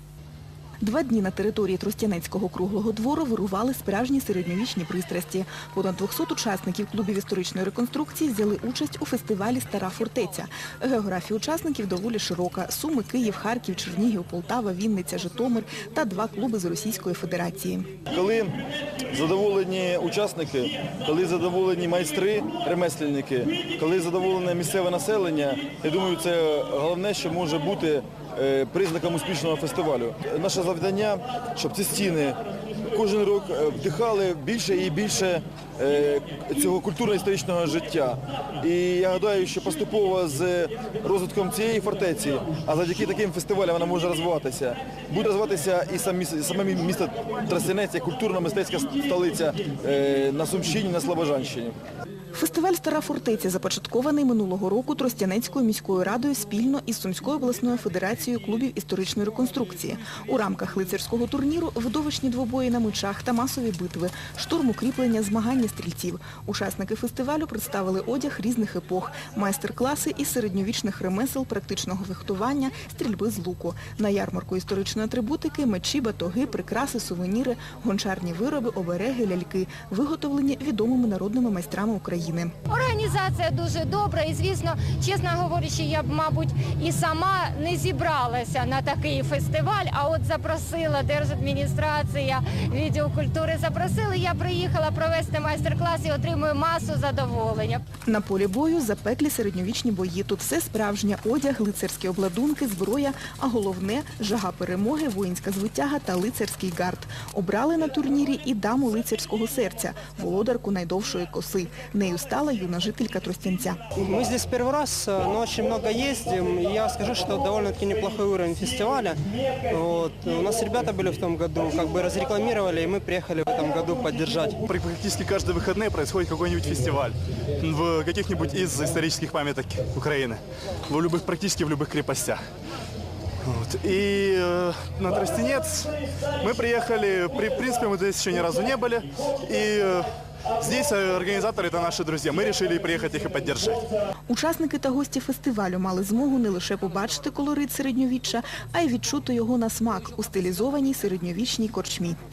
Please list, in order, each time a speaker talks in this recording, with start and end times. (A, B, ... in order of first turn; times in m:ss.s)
0:00.8-0:17.9 A
0:18.1-0:18.6 B
0:19.1-0:32.4 B
0:32.9-0:51.8 B
0:52.3-1:22.5 A
1:22.7-1:37.8 C
1:38.1-1:53.8 A
1:54.0-2:04.6 D
2:04.7-2:12.4 E
2:13.4-2:20.1 E
2:20.6-2:23.8 E
2:24.3-2:32.2 A